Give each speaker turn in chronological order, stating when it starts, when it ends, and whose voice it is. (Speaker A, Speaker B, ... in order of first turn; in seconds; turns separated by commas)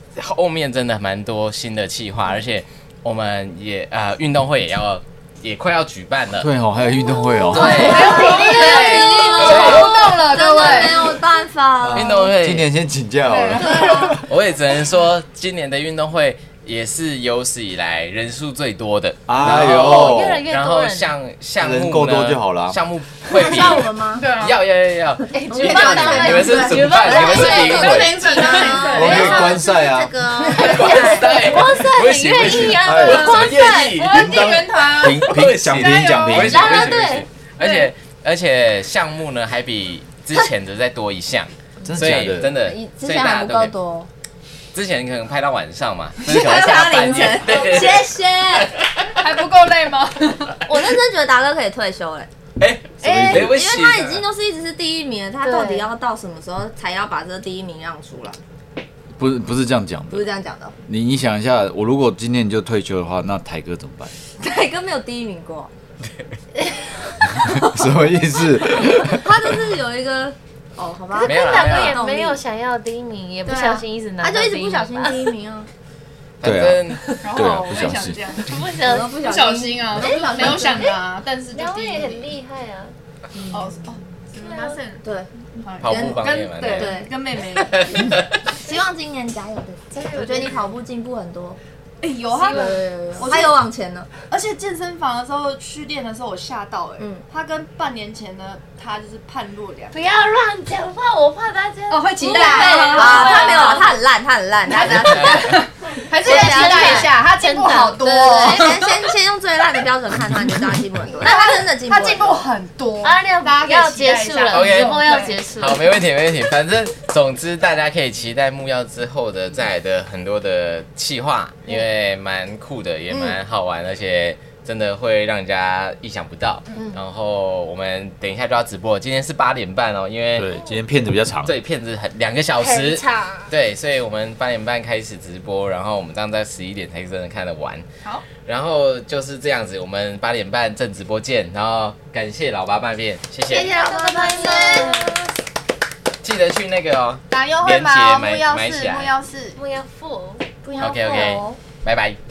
Speaker A: 0.1-6.5, Speaker B: 6.4-8.0, Speaker C: 7.4-12.1, Speaker A: 7.5-9.9, Speaker D: 7.6-11.2, Speaker E: 8.1-9.1, Speaker B: 11.8-14.2, Speaker A: 11.9-12.7, Speaker D: 13.2-14.1, Speaker C: 13.6-14.2, Speaker A: 14.2-29.6, Speaker B: 19.3-20.4, Speaker E: 19.7-21.1, Speaker B: 21.6-22.8, Speaker C: 23.3-24.3, Speaker D: 24.1-24.6, Speaker E: 25.3-29.1, Speaker C: 25.4-31.4, Speaker D: 25.5-29.5, Speaker B: 28.9-30.1, Speaker A: 30.6-34.3, Speaker E: 30.9-34.2, Speaker B: 32.4-33.4, Speaker D: 33.5-36.9, Speaker B: 34.1-36.9, Speaker A: 35.0-43.7, Speaker E: 36.3-37.8, Speaker B: 41.8-42.5, Speaker C: 42.6-44.1, Speaker A: 44.7-48.1, Speaker C: 46.2-48.8, Speaker E: 47.4-47.9, Speaker A: 48.6-48.9, Speaker D: 49.1-50.6, Speaker C: 50.6-52.3, Speaker A: 52.6-54.2, Speaker C: 53.0-58.4, Speaker B: 53.0-53.6, Speaker E: 55.4-55.9, Speaker B: 59.1-60.3, Speaker C: 60.1-60.7, Speaker B: 60.8-64.1, Speaker C: 64.4-65.7, Speaker E: 66.6-67.4, Speaker B: 67.3-69.5, Speaker C: 67.3-68.1, Speaker C: 68.9-72.4, Speaker E: 71.2-75.3, Speaker A: 71.2-72.0, Speaker C: 73.4-75.7, Speaker A: 76.4-77.2, Speaker B: 76.4-78.2, Speaker D: 77.2-82.3, Speaker E: 78.4-79.1, Speaker C: 78.8-81.0, Speaker E: 80.0-80.7, Speaker E: 81.5-82.9, Speaker C: 83.3-84.0, Speaker D: 83.5-85.0, Speaker E: 84.4-84.8, Speaker C: 85.0-87.1, Speaker D: 85.6-88.2, Speaker A: 85.8-87.0, Speaker A: 87.8-88.2, Speaker C: 88.5-91.6, Speaker E: 89.9-90.7, Speaker D: 92.0-100.0, Speaker E: 92.4-93.2, Speaker C: 92.5-94.1, Speaker E: 99.9-104.0, Speaker D: 101.9-103.9, Speaker C: 102.2-105.7, Speaker D: 104.7-109.0, Speaker C: 106.2-107.1, Speaker E: 106.2-108.7, Speaker C: 108.2-112.3, Speaker D: 111.2-115.4, Speaker E: 113.0-116.0, Speaker A: 114.5-130.5, Speaker C: 123.1-123.4, Speaker B: 130.3-131.6, Speaker A: 131.4-143.8, Speaker E: 132.6-133.5, Speaker C: 143.5-145.1, Speaker E: 143.5-145.3, Speaker A: 146.2-149.1, Speaker D: 147.3-149.6, Speaker E: 149.5-150.8, Speaker C: 150.6-151.6, Speaker A: 150.8-152.2